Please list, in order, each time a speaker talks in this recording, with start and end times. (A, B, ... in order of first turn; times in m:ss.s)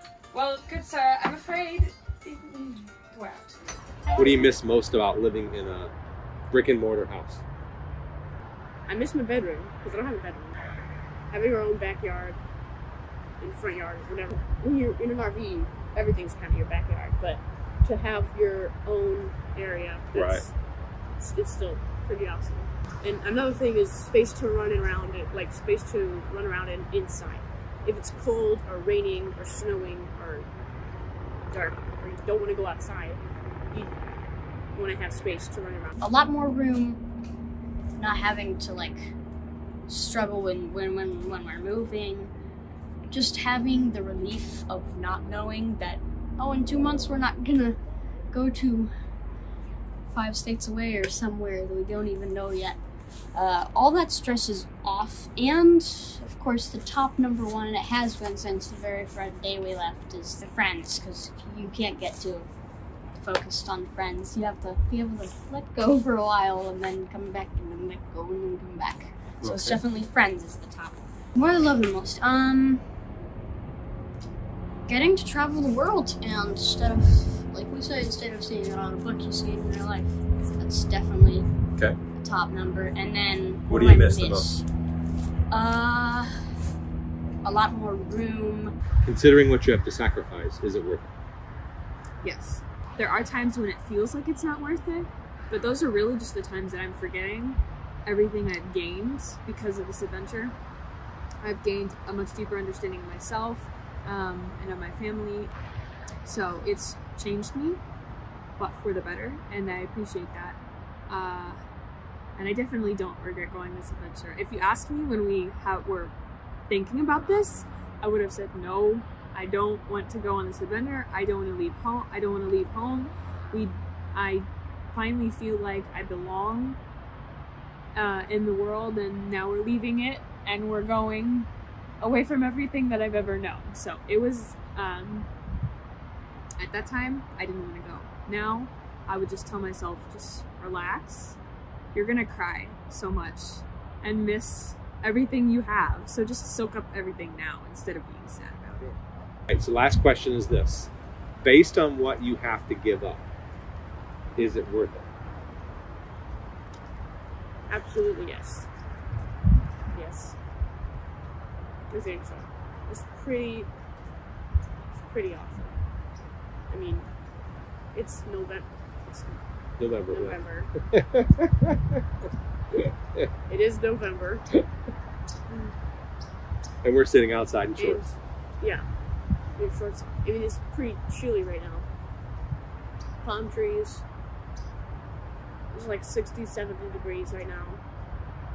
0:00.3-0:03.5 A
0:04.2-0:05.9 B
0:06.5-0:07.4 B
0:08.9-0:10.6 C
0:11.3-0:12.4 C
0:13.4-0:20.5 C
0:20.1-0:20.5 B
0:21.2-0:30.5 C
0:31.5-0:33.2 C
0:34.8-0:36.0 C
0:36.0-0:37.0 D
0:38.0-0:39.2 D
0:39.9-0:42.3 D
0:43.1-0:47.8 D
0:48.3-0:48.9 D
0:50.1-0:52.8 D
0:53.3-1:02.5 D
1:03.2-1:12.8 D
1:09.4-1:09.8 B
1:14.9-1:21.5 D
1:22.1-1:24.6 D
1:23.7-1:24.5 B
1:25.5-1:26.4 D
1:27.4-1:28.8 D
1:29.1-1:31.1 B
1:32.2-1:40.6 E
1:41.4-1:45.5 E
1:46.2-1:47.8 E
1:48.6-1:51.6 E
1:52.4-1:56.1 E
1:56.7-2:06.8 E
2:08.0-2:11.5 E
2:12.0-2:15.3 E
2:16.6-2:21.4 E
2:21.9-2:28.9 E
2:29.5-2:30.9 B
2:31.4-2:33.2 B
2:34.4-2:35.1 B
2:37.7-2:38.7 C
2:39.9-2:40.4 C
2:41.9-2:43.7 C
2:45.0-2:45.8 C
2:46.7-2:47.1 C
2:47.9-2:49.4 C
2:49.8-2:52.0 B
2:50.1-2:50.7 C
2:52.8-2:53.3 B
2:53.5-2:54.4 C
2:56.8-2:58.1 B
2:57.8-2:58.8 C
2:59.6-3:01.9 C
3:03.2-3:04.0 C
3:05.7-3:07.8 C